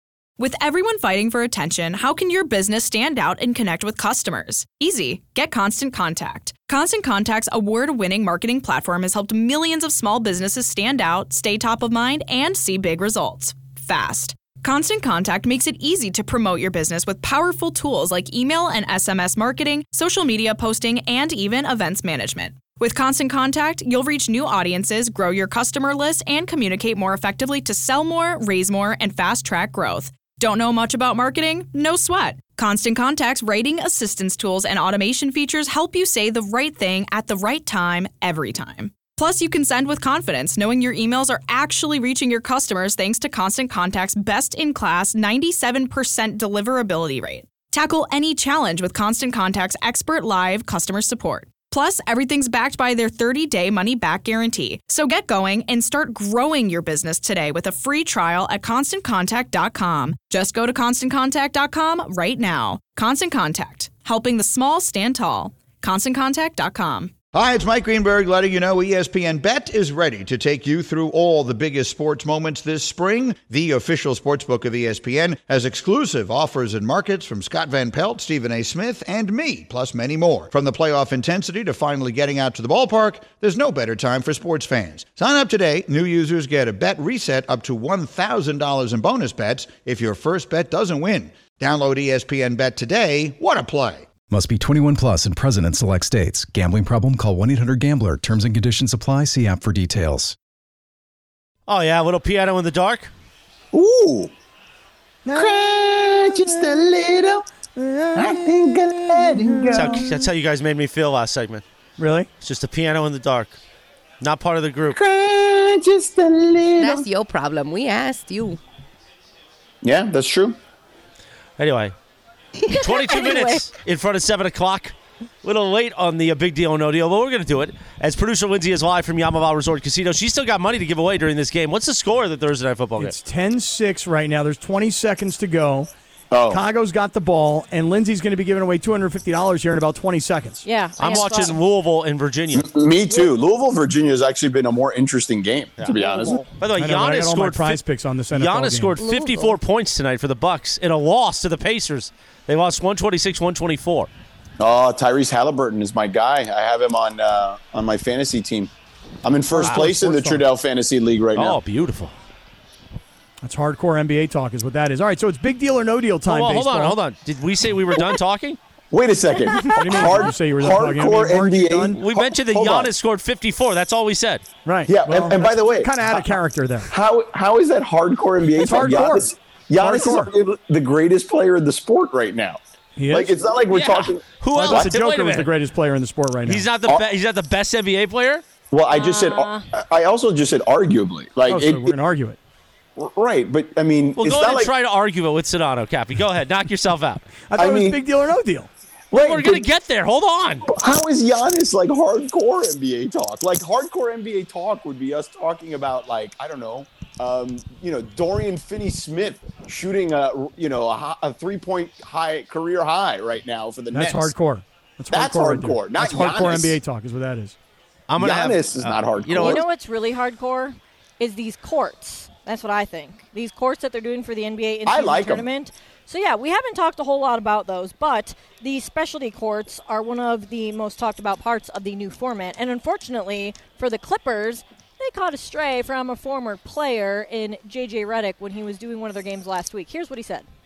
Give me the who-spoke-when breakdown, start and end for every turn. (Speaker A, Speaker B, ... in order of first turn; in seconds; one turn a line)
Speaker A: 0.4-67.1
Speaker B: 67.3-94.1
Speaker C: 94.3-100.3
Speaker D: 101.7-103.1
Speaker E: 103.7-104.3
Speaker F: 105.2-105.7
Speaker E: 105.3-107.4
Speaker F: 106.2-106.8
Speaker F: 107.7-110.2
Speaker E: 108.1-110.1
Speaker D: 109.7-111.6
Speaker F: 112.0-112.3
Speaker D: 112.4-113.6
Speaker D: 114.2-115.0
Speaker E: 114.9-117.0
Speaker G: 116.8-118.6
Speaker E: 119.8-120.6
Speaker D: 121.6-121.9
Speaker H: 122.6-123.6
Speaker D: 122.8-133.1
Speaker F: 133.0-135.9
Speaker E: 136.3-136.6
Speaker F: 136.5-140.6
Speaker H: 140.6-141.6
Speaker D: 141.0-142.7
Speaker E: 142.5-146.4
Speaker D: 145.8-147.8
Speaker H: 146.0-146.4
Speaker F: 146.7-149.0
Speaker D: 148.3-154.1
Speaker G: 149.0-149.6
Speaker E: 154.6-158.7
Speaker E: 159.2-161.6
Speaker F: 159.5-160.4
Speaker D: 161.3-162.1
Speaker F: 163.4-167.0
Speaker D: 166.3-168.6
Speaker E: 168.9-172.9
Speaker F: 169.6-172.0
Speaker D: 172.0-174.4
Speaker F: 174.6-176.9
Speaker E: 174.9-176.3
Speaker E: 176.9-182.6
Speaker F: 178.5-180.3
Speaker F: 182.9-183.3
Speaker E: 183.1-184.9
Speaker H: 183.7-184.0
Speaker D: 184.4-185.5
Speaker F: 184.5-186.7
Speaker D: 186.4-188.4
Speaker E: 188.7-191.9
Speaker H: 188.9-189.7
Speaker F: 191.4-192.4
Speaker E: 193.0-194.7
Speaker D: 194.2-197.2
Speaker F: 197.5-198.7
Speaker E: 197.6-198.0
Speaker E: 199.1-199.6
Speaker D: 199.1-200.7
Speaker E: 200.7-214.3
Speaker F: 213.9-217.6
Speaker E: 215.1-216.8
Speaker D: 218.1-219.6
Speaker E: 218.2-219.6
Speaker H: 219.4-240.4
Speaker E: 224.8-225.4